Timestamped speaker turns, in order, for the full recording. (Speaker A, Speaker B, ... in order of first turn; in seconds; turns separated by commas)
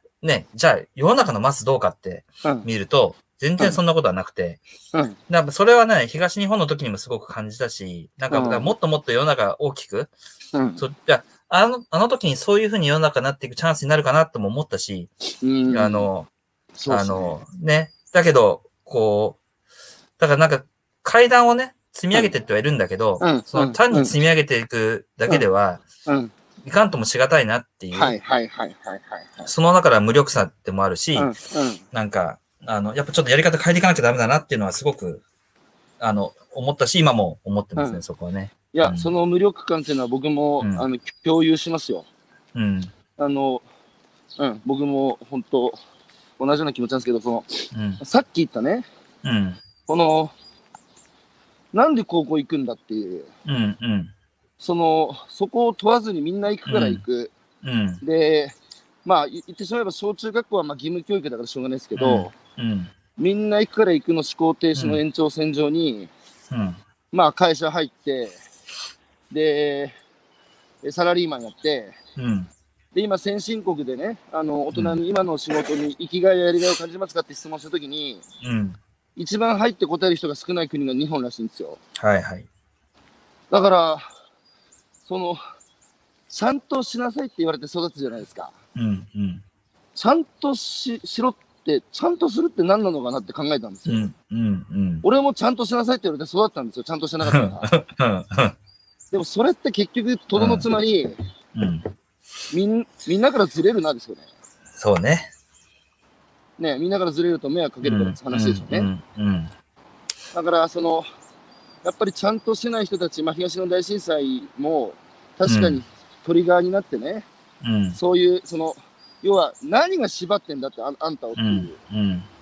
Speaker A: 0.2-4.6, Speaker B: 4.9-5.2, Speaker A: 5.3-10.1, Speaker B: 8.3-8.7, Speaker B: 10.5-10.8, Speaker A: 10.8-15.1, Speaker B: 15.4-16.1, Speaker A: 15.7-16.3, Speaker B: 16.8-17.3, Speaker A: 16.9-19.4, Speaker A: 20.2-25.8, Speaker B: 23.2-24.1, Speaker B: 26.1-26.3, Speaker A: 26.6-28.1, Speaker B: 27.9-29.5, Speaker A: 29.4-31.3, Speaker B: 31.1-31.8, Speaker A: 31.9-35.2, Speaker A: 36.0-39.1, Speaker B: 37.8-38.0, Speaker B: 38.7-42.1, Speaker A: 40.6-40.9, Speaker A: 42.5-42.9, Speaker B: 43.2-43.6, Speaker B: 44.4-45.8, Speaker B: 46.4-48.9, Speaker A: 47.7-48.0, Speaker A: 49.2-49.6, Speaker B: 49.9-50.3, Speaker B: 51.7-53.3, Speaker A: 53.4-54.1, Speaker B: 54.6-57.3, Speaker A: 56.7-57.0, Speaker A: 57.6-58.0, Speaker B: 58.0-62.3, Speaker A: 62.0-62.9, Speaker B: 63.2-66.1, Speaker A: 64.7-65.0, Speaker A: 66.5-66.8, Speaker B: 67.1-68.4, Speaker B: 69.3-69.9, Speaker B: 70.8-72.0, Speaker A: 72.2-72.5, Speaker B: 72.9-78.2, Speaker A: 74.7-75.0, Speaker A: 78.4-78.8, Speaker B: 79.2-81.8, Speaker A: 82.0-82.5, Speaker B: 83.5-84.0, Speaker B: 85.0-85.4, Speaker B: 86.3-88.5, Speaker A: 88.7-89.4, Speaker B: 90.0-94.1, Speaker A: 93.8-95.0, Speaker B: 95.0-97.7, Speaker A: 97.3-98.5, Speaker B: 99.1-101.2, Speaker A: 100.3-100.7, Speaker A: 101.5-101.9, Speaker B: 102.5-104.3, Speaker A: 104.8-105.3, Speaker B: 106.6-108.9, Speaker A: 107.8-109.5, Speaker B: 110.3-111.1, Speaker B: 111.8-117.2, Speaker A: 115.5-115.8, Speaker A: 117.6-118.0, Speaker B: 117.9-121.8, Speaker A: 121.3-122.3